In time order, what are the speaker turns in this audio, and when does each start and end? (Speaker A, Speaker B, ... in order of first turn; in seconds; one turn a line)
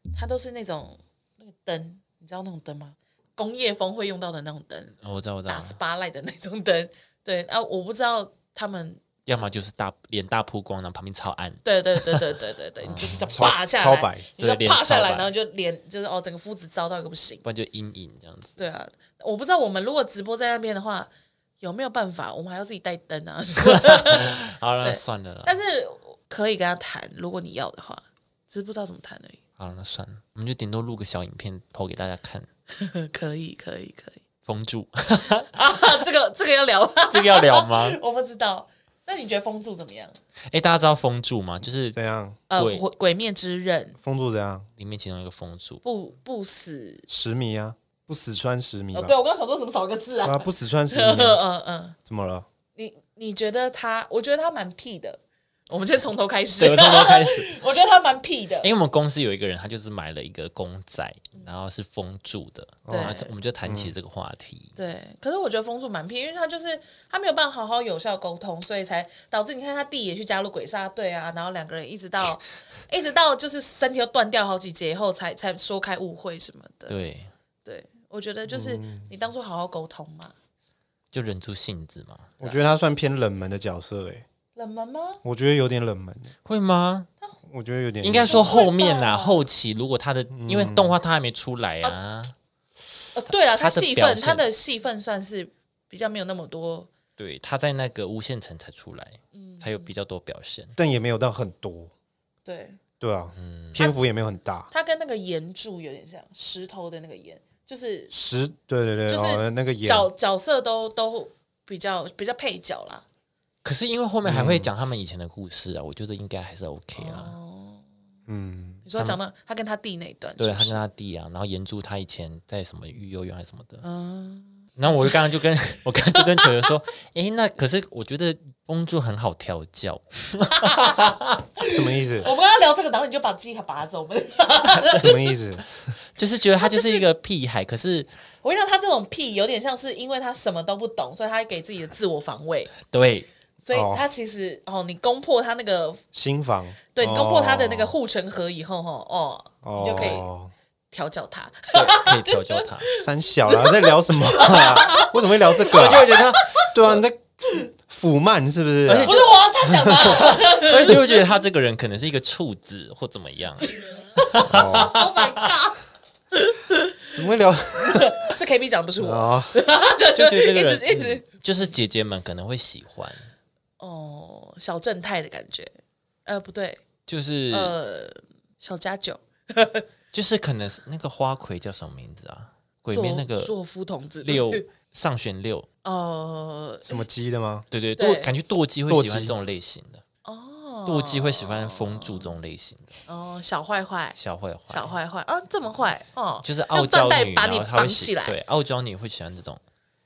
Speaker A: 0.1-9.5
Speaker B: 5.0-5.8
Speaker B: 9.3-13.4
Speaker A: 11.6-17.4
Speaker C: 13.1-14.3
Speaker B: 14.4-15.3
Speaker B: 17.4-18.6
Speaker A: 18.6-29.4
Speaker B: 23.7-25.6
Speaker B: 29.6-32.5
Speaker A: 32.8-34.2
Speaker B: 34.5-35.5
Speaker A: 35.5-40.2
Speaker B: 37.1-38.0
Speaker B: 40.5-42.0
Speaker C: 41.9-42.4
Speaker A: 42.5-44.0
Speaker B: 42.5-42.9
Speaker C: 44.0-44.7
Speaker B: 44.8-45.8
Speaker A: 45.8-47.0
Speaker C: 47.1-49.2
Speaker A: 48.9-52.0
Speaker C: 50.2-51.4
Speaker C: 52.0-52.5
Speaker A: 52.8-58.7
Speaker B: 56.6-57.5
Speaker B: 58.6-64.7
Speaker C: 62.9-63.9
Speaker A: 62.9-63.3
Speaker A: 64.8-77.0
Speaker B: 76.9-77.3
Speaker A: 77.6-80.3
Speaker C: 78.5-79.1
Speaker B: 81.1-82.6
Speaker C: 82.4-84.2
Speaker A: 84.5-85.2
Speaker C: 85.2-86.3
Speaker B: 86.5-87.1
Speaker C: 87.5-88.7
Speaker B: 88.0-92.3
Speaker A: 88.3-89.5
Speaker C: 90.3-90.9
Speaker A: 93.2-96.9
Speaker B: 93.3-94.5
Speaker B: 97.2-100.8
Speaker A: 99.3-99.9
Speaker C: 100.8-101.9
Speaker A: 102.5-102.8
Speaker C: 103.0-104.7
Speaker B: 103.3-103.8
Speaker A: 104.7-108.1
Speaker C: 108.1-110.1
Speaker A: 109.1-113.0
Speaker B: 113.6-117.4
Speaker C: 114.2-114.7
Speaker A: 117.0-117.8
Speaker C: 118.3-118.9
Speaker A: 118.8-120.8
Speaker B: 120.4-123.8
Speaker A: 123.8-125.1
Speaker B: 124.8-131.5
Speaker A: 130.6-131.1
Speaker C: 131.6-132.3
Speaker A: 131.7-135.3
Speaker C: 134.8-135.6
Speaker B: 136.2-138.1
Speaker A: 136.6-137.1
Speaker A: 138.4-142.8
Speaker B: 142.8-143.3
Speaker A: 143.6-146.0
Speaker C: 143.7-144.0
Speaker C: 146.1-147.9
Speaker A: 146.9-150.3
Speaker C: 149.6-150.5
Speaker A: 150.9-156.7
Speaker B: 151.7-152.9
Speaker C: 153.0-160.3
Speaker B: 155.7-156.5
Speaker B: 158.9-159.3
Speaker A: 159.1-161.2
Speaker B: 159.9-165.4
Speaker A: 163.8-164.1
Speaker C: 164.5-165.0
Speaker A: 164.7-165.8
Speaker A: 166.3-166.8
Speaker C: 167.1-168.2
Speaker A: 167.8-171.4
Speaker C: 169.0-169.6
Speaker B: 170.1-173.3
Speaker A: 173.8-176.8
Speaker B: 177.1-177.8
Speaker A: 177.5-179.8
Speaker B: 180.1-183.5
Speaker A: 182.9-184.7
Speaker B: 184.2-185.7
Speaker A: 185.8-187.1
Speaker C: 186.8-187.7
Speaker B: 187.7-190.0
Speaker A: 188.0-188.3
Speaker C: 188.9-189.3
Speaker A: 190.2-192.4
Speaker B: 190.9-193.0
Speaker A: 193.1-194.2
Speaker B: 194.2-195.0
Speaker A: 194.7-198.4
Speaker B: 196.4-199.6